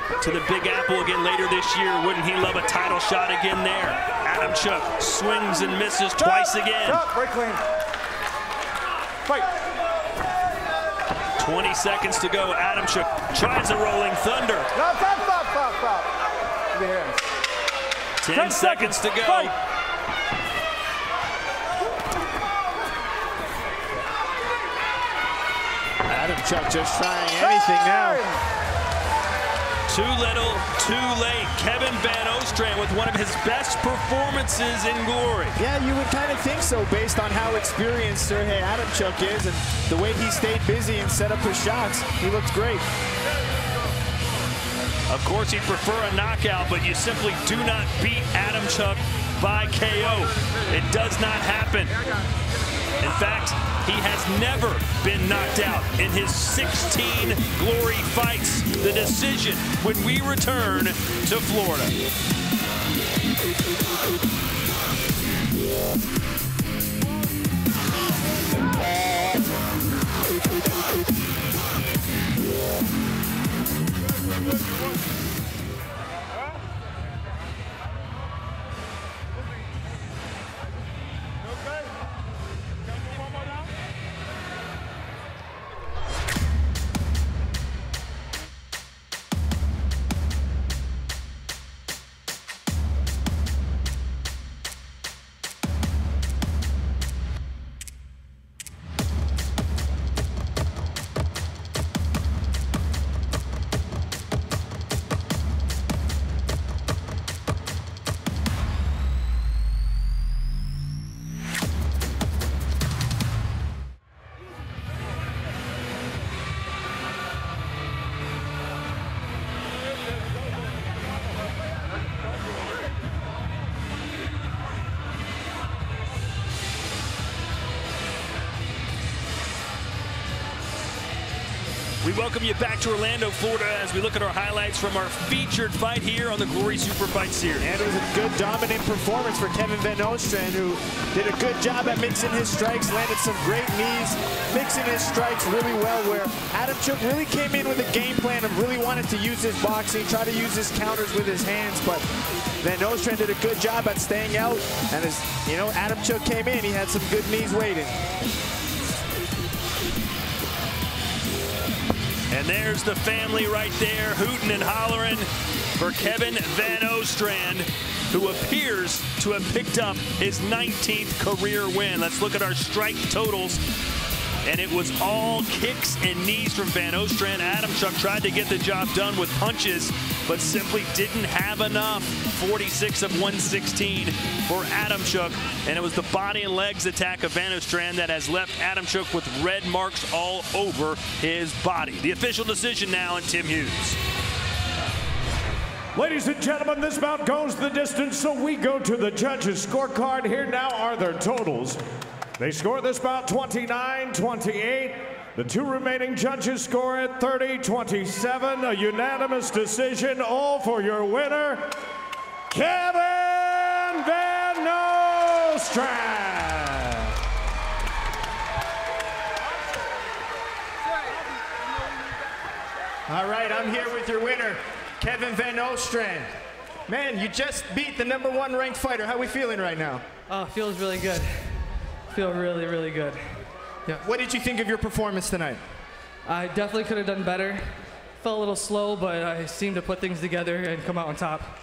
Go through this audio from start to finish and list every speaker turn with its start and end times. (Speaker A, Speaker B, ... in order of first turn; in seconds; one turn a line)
Speaker A: 0.2-7.0
Speaker B: 6.2-7.6
Speaker B: 9.2-9.5
Speaker A: 11.4-14.7
Speaker B: 14.7-17.2
Speaker A: 18.2-19.5
Speaker B: 18.3-19.5
Speaker C: 26.0-28.2
Speaker B: 27.4-28.4
Speaker A: 29.9-35.6
Speaker C: 35.6-42.9
Speaker A: 45.1-52.0
Speaker A: 53.0-62.0
Speaker A: 132.0-137.7
Speaker C: 137.6-152.1
Speaker C: 152.6-158.0
Speaker A: 162.3-173.6
Speaker A: 174.4-194.0
Speaker D: 195.9-201.8
Speaker D: 202.4-211.7
Speaker D: 212.5-217.1
Speaker C: 223.1-226.3
Speaker C: 226.9-230.0
Speaker E: 230.3-233.2
Speaker C: 234.0-235.6
Speaker E: 236.3-237.6
Speaker E: 238.2-241.4